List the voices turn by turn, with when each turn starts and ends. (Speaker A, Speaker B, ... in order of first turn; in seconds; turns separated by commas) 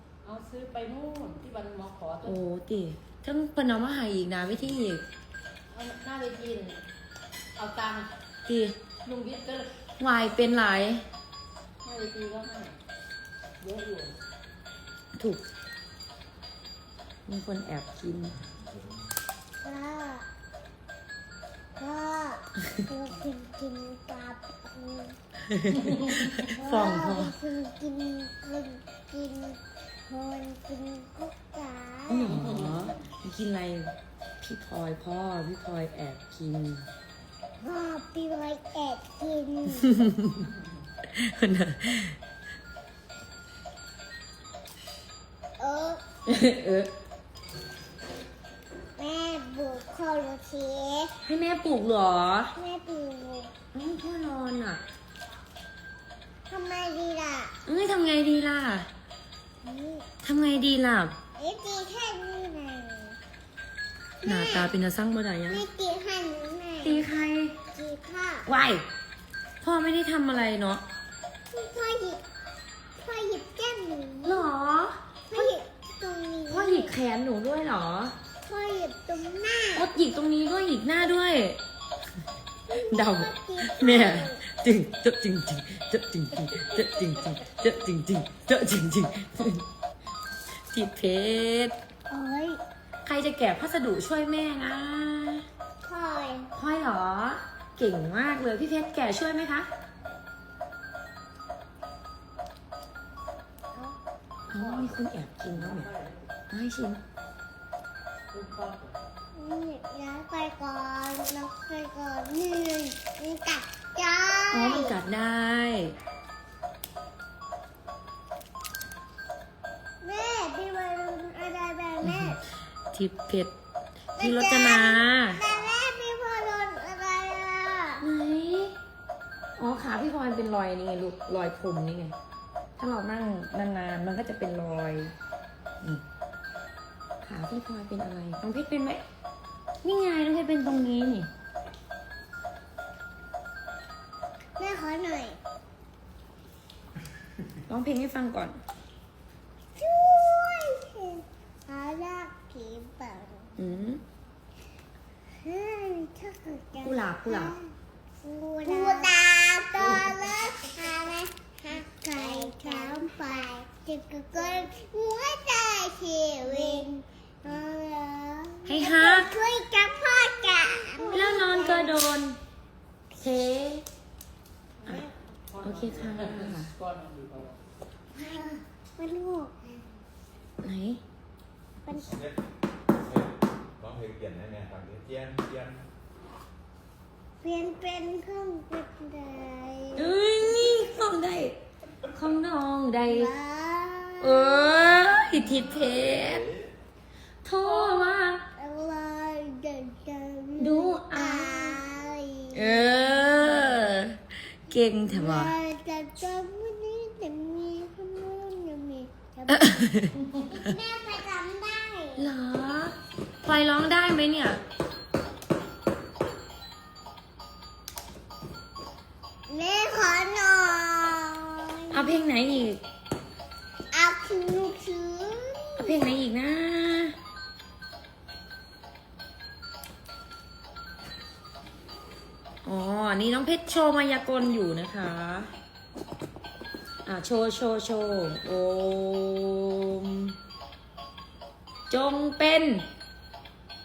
Speaker A: 0.2-2.4, Speaker B: 2.2-5.0, Speaker A: 5.7-6.8, Speaker A: 7.6-8.1, Speaker B: 8.5-8.8, Speaker A: 9.1-9.8, Speaker B: 10.0-11.1, Speaker A: 11.8-12.8, Speaker A: 13.6-14.2, Speaker B: 15.2-15.4, Speaker B: 17.3-18.4, Speaker C: 19.6-20.3, Speaker C: 21.8-25.2, Speaker B: 25.5-27.3, Speaker C: 26.4-32.4, Speaker B: 32.1-36.9, Speaker A: 32.3-33.0, Speaker C: 37.6-40.1, Speaker B: 39.9-40.4, Speaker B: 41.1-42.1, Speaker C: 45.6-46.0, Speaker B: 46.3-46.9, Speaker C: 49.0-51.1, Speaker B: 51.2-52.5, Speaker C: 52.6-53.5, Speaker B: 53.7-54.8, Speaker C: 56.5-57.5, Speaker B: 57.6-58.9, Speaker C: 59.6-60.1, Speaker B: 60.2-61.1, Speaker C: 61.4-63.2, Speaker C: 64.2-64.7, Speaker B: 64.2-65.6, Speaker C: 65.5-67.0, Speaker B: 66.8-67.6, Speaker C: 67.7-68.5, Speaker B: 68.5-68.8, Speaker B: 69.6-70.8, Speaker C: 71.5-72.2, Speaker C: 73.0-74.5, Speaker B: 74.2-75.5, Speaker C: 75.3-76.9, Speaker B: 76.5-78.1, Speaker C: 78.5-79.9, Speaker B: 79.8-81.6, Speaker C: 82.7-84.4, Speaker B: 82.9-89.7, Speaker B: 90.7-91.8, Speaker C: 92.1-92.6, Speaker B: 93.0-95.5, Speaker C: 95.8-96.5, Speaker B: 96.5-99.7, Speaker B: 104.5-105.9, Speaker A: 104.5-105.0, Speaker A: 105.5-106.2, Speaker B: 106.5-107.0, Speaker A: 108.3-109.0, Speaker C: 109.3-115.0, Speaker B: 114.5-116.0, Speaker C: 120.0-122.4, Speaker B: 122.0-122.3, Speaker B: 122.9-123.5, Speaker B: 124.2-125.4, Speaker C: 124.2-128.0, Speaker B: 128.0-128.7, Speaker B: 129.6-132.2, Speaker B: 132.8-135.1, Speaker B: 137.2-139.0, Speaker B: 139.8-141.3, Speaker C: 144.6-145.4, Speaker B: 147.7-148.6, Speaker C: 149.8-153.5, Speaker B: 153.6-154.0, Speaker C: 155.4-157.7, Speaker B: 156.8-157.6, Speaker C: 158.2-171.9, Speaker A: 159.8-160.2, Speaker A: 162.2-162.7, Speaker B: 168.7-169.3, Speaker B: 171.1-172.4, Speaker B: 173.2-173.8, Speaker A: 174.8-177.6, Speaker B: 175.6-176.7, Speaker C: 178.2-179.6, Speaker B: 180.6-181.0, Speaker C: 181.9-182.2, Speaker D: 183.8-185.8, Speaker C: 187.4-190.9, Speaker B: 190.0-191.6, Speaker B: 192.1-193.3, Speaker C: 193.1-195.2, Speaker B: 194.2-196.4, Speaker B: 197.4-198.4, Speaker C: 198.6-202.8, Speaker B: 200.6-201.8, Speaker B: 202.5-205.5, Speaker C: 205.1-209.9, Speaker B: 209.5-210.8, Speaker C: 210.5-212.2, Speaker B: 212.2-214.6, Speaker C: 219.5-222.1, Speaker B: 221.9-222.8, Speaker C: 223.9-226.0, Speaker B: 225.8-227.2, Speaker B: 232.6-235.5, Speaker B: 237.1-240.3, Speaker B: 241.9-242.9